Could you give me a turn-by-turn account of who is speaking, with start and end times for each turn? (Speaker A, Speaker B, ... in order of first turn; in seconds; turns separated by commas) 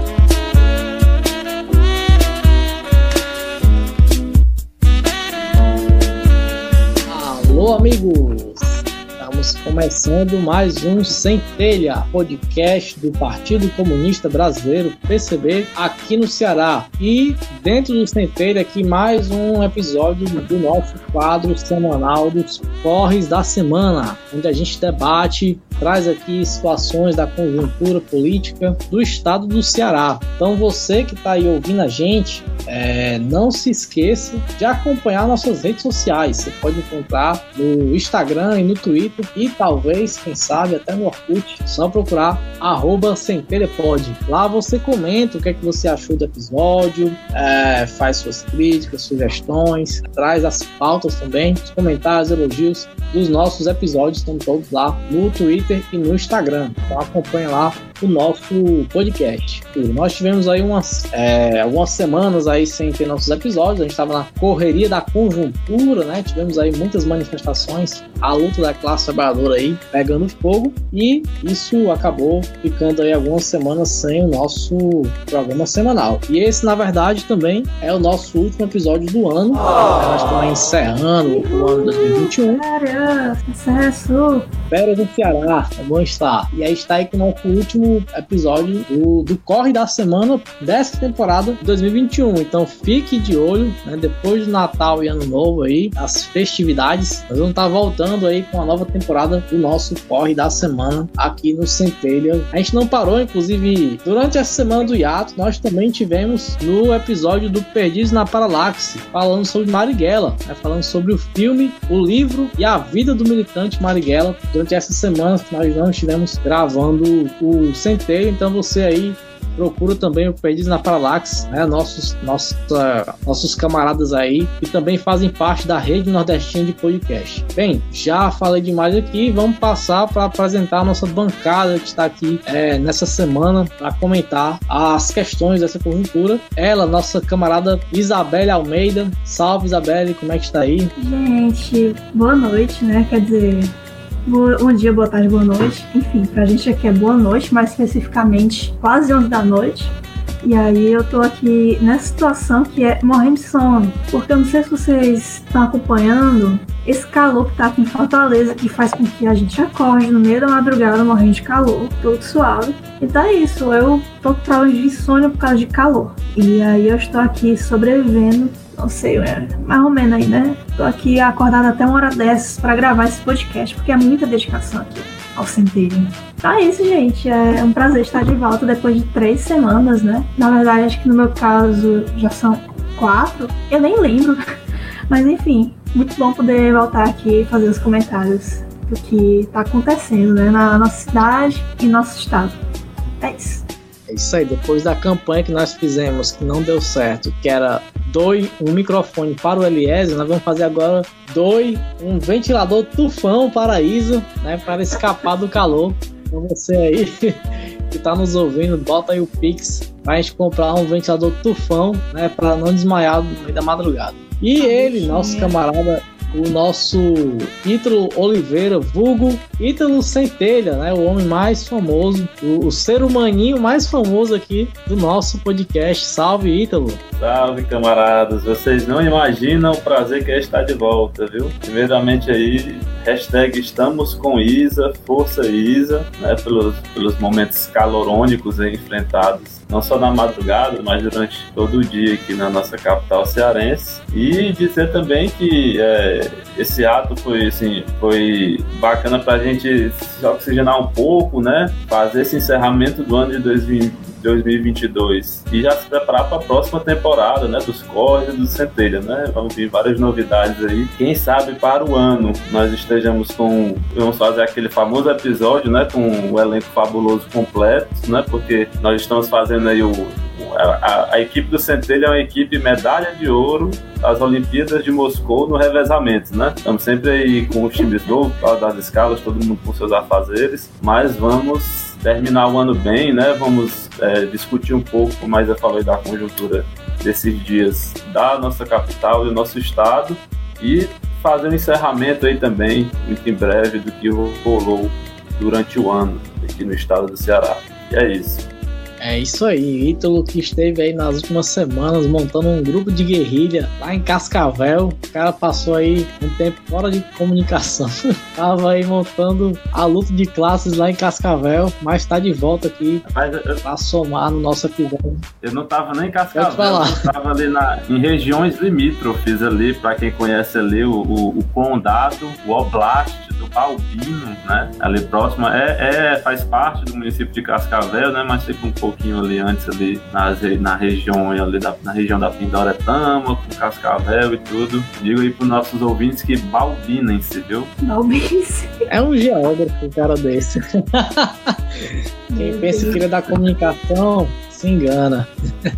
Speaker A: 7.1-82.6, Speaker B: 81.2-84.5, Speaker A: 84.7-140.9, Speaker B: 141.0-143.7, Speaker B: 144.2-184.4, Speaker B: 185.1-192.6, Speaker B: 193.2-193.7, Speaker A: 194.1-227.0, Speaker B: 214.6-215.6, Speaker C: 227.2-298.4, Speaker A: 299.0-313.0, Speaker C: 313.1-313.6, Speaker A: 313.6-315.2, Speaker C: 315.4-337.7, Speaker A: 316.3-317.1, Speaker B: 337.8-338.8, Speaker A: 338.9-345.3, Speaker B: 342.3-343.1